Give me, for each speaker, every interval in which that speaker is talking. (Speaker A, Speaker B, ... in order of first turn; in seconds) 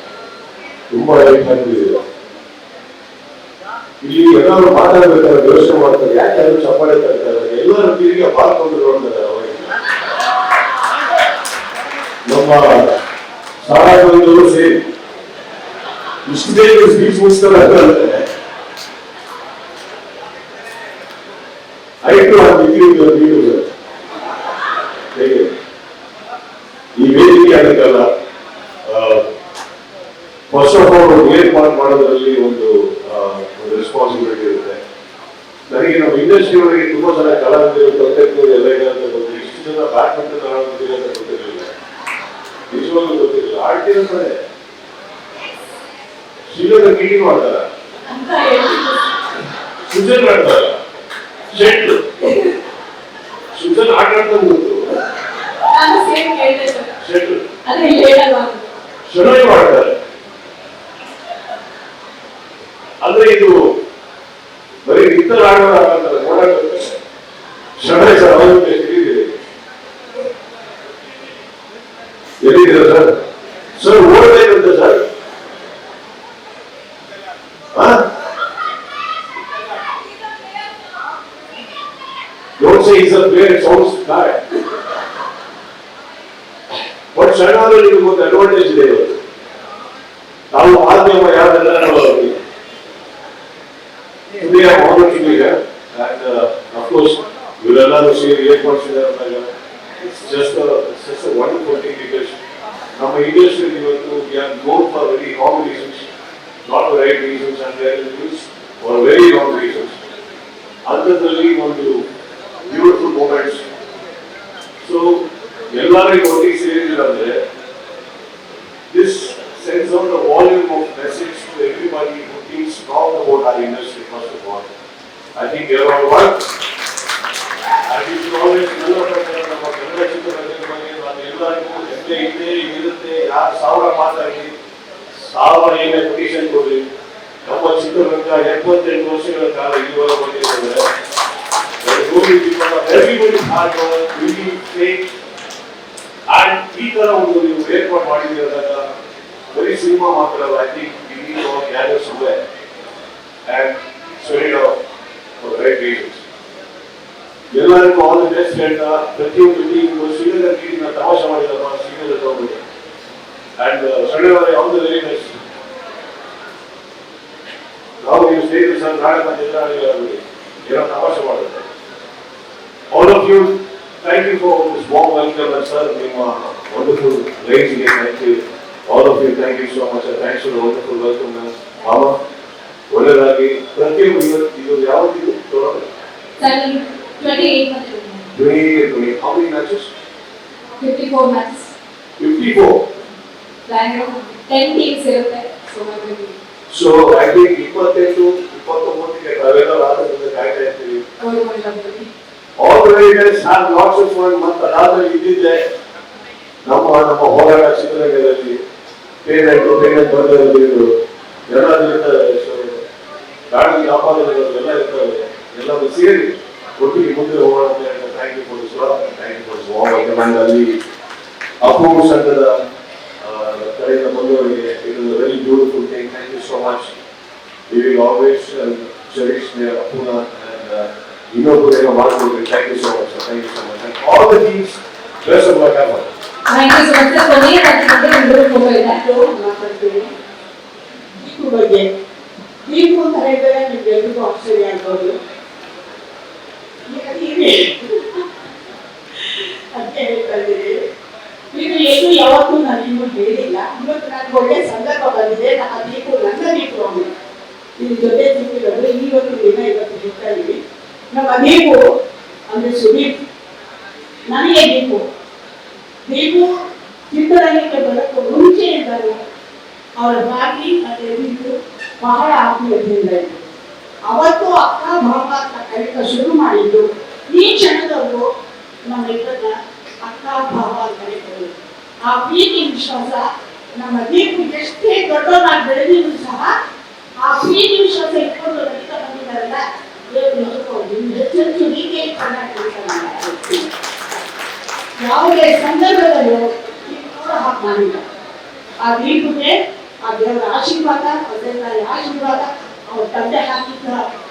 Speaker A: 0.9-2.0, 4.0-9.7, 12.3-12.9, 13.6-14.8, 16.2-18.2, 22.0-23.7, 25.1-25.5, 26.9-28.1, 28.8-29.2, 30.5-34.8, 35.7-41.7, 42.7-44.4, 46.5-47.6, 49.9-50.8, 51.5-52.0, 53.5-54.8, 57.0-57.4, 59.0-60.0, 63.0-63.6, 64.8-67.0, 67.8-69.3, 72.4-73.2, 73.7-75.0, 77.7-78.0, 82.6-84.4, 87.1-89.2, 90.5-92.4, 94.4-102.3, 102.9-106.1, 106.6-110.0, 110.8-112.0, 112.7-113.6, 114.8-117.4, 118.9-124.7, 125.3-126.4, 127.9-134.5, 135.1-136.9, 137.4-140.9, 141.8-145.1, 146.3-148.9, 149.5-152.4, 153.4-154.8, 155.4-156.2, 157.5-162.6, 163.6-165.4, 168.0-171.7, 172.9-182.2, 182.9-185.9, 188.3-189.9, 192.2-192.8, 196.7-201.1, 202.6-205.6, 206.6-208.6, 209.2-212.8, 213.5-220.8, 221.6-222.6, 223.2-226.9, 227.7-236.1
Speaker B: 48.1-49.2, 55.6-56.9, 57.6-58.6, 186.4-188.3, 190.8-191.7, 193.7-196.3, 201.2-202.1, 236.5-239.0
Speaker C: 239.0-240.1, 241.2-241.9, 242.7-245.1, 246.9-248.2, 249.1-250.7, 251.5-257.1, 257.8-260.6, 261.1-261.8, 262.5-263.1, 264.3-265.0, 266.1-266.5, 267.1-269.1, 270.0-273.4, 274.1-278.2, 278.9-281.5, 282.1-283.2, 283.8-286.5, 287.2-293.6, 295.0-298.0, 298.8-304.0